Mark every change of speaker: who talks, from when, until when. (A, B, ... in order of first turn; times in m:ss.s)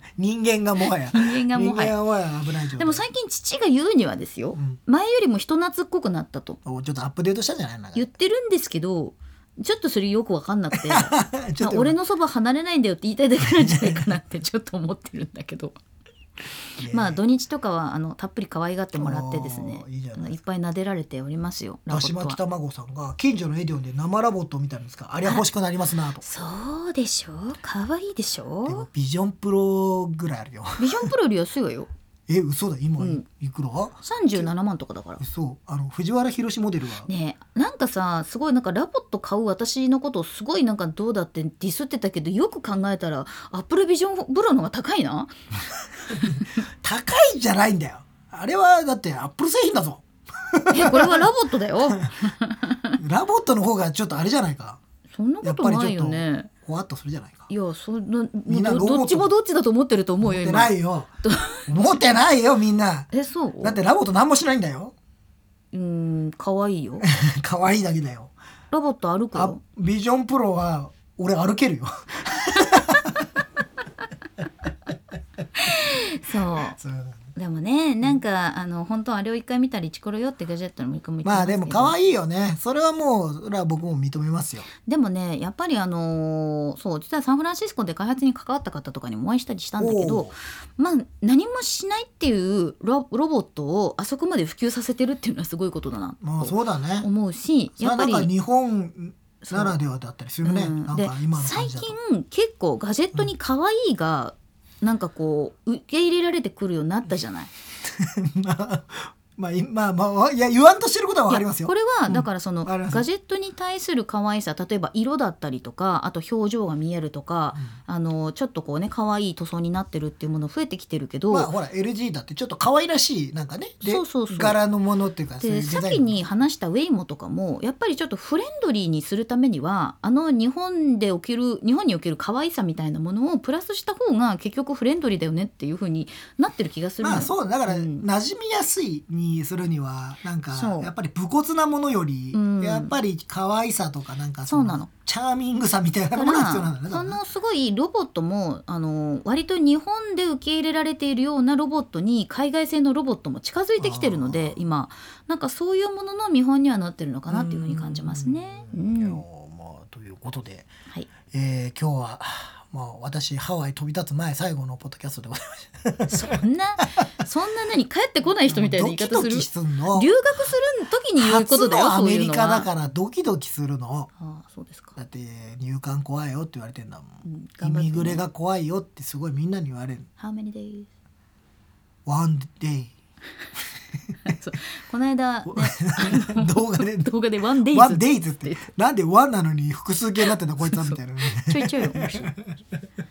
0:00.2-0:03.0 A
0:01.1-0:02.0 B
0:02.8-0:06.6 B
0:06.6-0:08.1 A
0:07.9-0:15.7 B
0:10.7-0:12.0 A
0:13.4-0:14.1 A
0:16.8-0:17.2 A
0:16.9-0:22.4 B
0:18.9-0:20.4 A
0:21.9-0:26.2 A
0:26.2-0:28.9 B
0:28.6-0:31.1 A
0:30.8-0:31.9 B
0:32.3-0:34.5 A
0:33.0-0:33.2 B
0:34.0-0:35.2 B
0:35.2-0:37.1 A
0:37.1-0:45.3 B
0:46.1-0:51.3 A
0:46.1-0:46.5 B
0:50.7-0:53.0 B
0:53.0-0:54.8 A
0:55.1-0:56.5 B
0:55.4-0:57.5 A
0:57.5-1:02.0 B
0:58.5-0:59.3 A
1:00.2-1:01.1 A
1:01.7-1:03.1 A
1:03.1-1:03.8 B
1:03.6-1:04.9 A
1:05.7-1:07.1 B
1:07.0-1:08.3 A
1:08.7-1:09.6 B
1:09.3-1:13.2 A
1:15.5-1:16.8 B
1:16.8-1:17.2 A
1:17.3-1:21.9 B
1:21.2-1:24.7 A
1:24.8-1:38.3 B
1:29.8-1:30.4 A
1:36.2-1:37.1 A
1:37.8-1:42.0 A
1:39.4-1:39.8 B
1:40.4-1:47.5 B
1:47.8-1:53.0 A
1:51.3-2:01.5 B
2:01.3-2:06.2 A
2:03.8-2:04.6 B
2:05.4-2:18.0 B
2:17.0-2:27.2 A
2:20.5-2:20.9 B
2:22.3-2:23.0 B
2:24.5-2:24.9 B
2:26.1-2:39.2 B
2:33.8-2:34.6 A
2:37.3-2:40.7 A
2:41.3-2:46.4 A
2:46.1-2:52.7 B
2:48.4-2:50.1 A
2:51.2-2:54.1 A
2:54.2-2:55.0 B
2:55.0-3:00.1 A
2:57.2-2:58.2 B
3:00.2-3:00.9 B
3:02.0-3:02.9 A
3:04.2-3:08.6 B
3:05.5-3:07.1 A
3:07.7-3:12.5 A
3:10.6-3:12.3 B